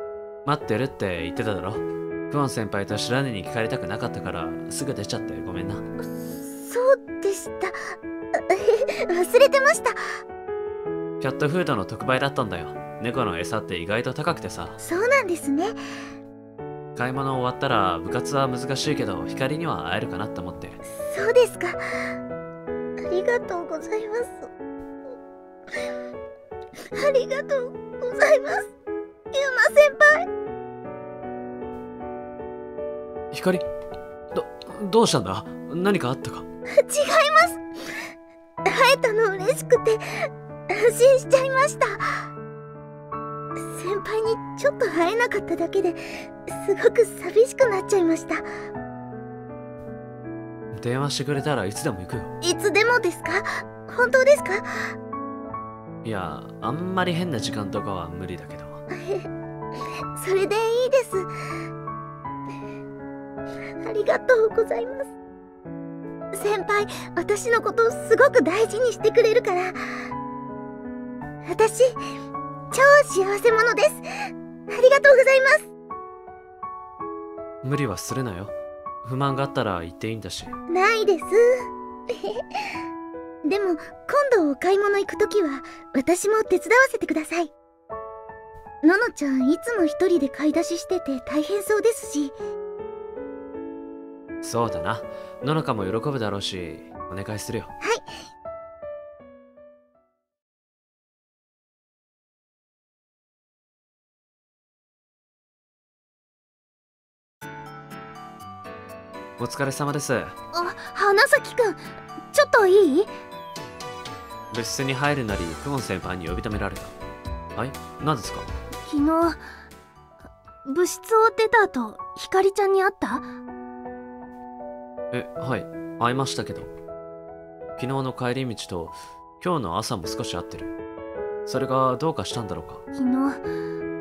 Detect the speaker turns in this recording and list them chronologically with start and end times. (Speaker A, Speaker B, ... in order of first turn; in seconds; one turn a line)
Speaker A: 0.4-5.8
Speaker B: 6.0-7.8
Speaker B: 8.3-9.9
Speaker A: 11.2-14.8
Speaker B: 14.8-15.7
Speaker A: 16.9-20.8
Speaker B: 20.9-22.1
Speaker B: 23.0-24.5
Speaker B: 26.9-28.7
Speaker B: 29.3-30.3
Speaker A: 33.3-33.6
Speaker A: 34.3-36.5
Speaker B: 36.7-37.6
Speaker B: 38.6-42.2
Speaker B: 43.6-48.4
Speaker A: 50.7-52.3
Speaker B: 52.4-54.9
Speaker A: 56.0-58.8
Speaker B: 58.9-59.3
Speaker B: 60.1-61.3
Speaker B: 63.8-65.1
Speaker B: 66.3-70.0
Speaker B: 71.4-72.0
Speaker B: 72.7-75.7
Speaker A: 77.6-80.6
Speaker B: 80.7-81.4
Speaker B: 82.1-82.4
Speaker B: 83.4-87.5
Speaker B: 88.8-92.3
Speaker A: 94.4-97.7
Speaker B: 97.8-98.2
Speaker A: 109.4-110.3
Speaker C: 110.5-111.8
Speaker C: 112.3-113.1
Speaker A: 114.5-116.9
Speaker A: 117.5-118.5
Speaker C: 118.8-119.4
Speaker C: 120.6-123.3
Speaker A: 125.1-126.7
Speaker A: 127.8-130.7
Speaker A: 131.4-132.8
Speaker C: 132.9-133.4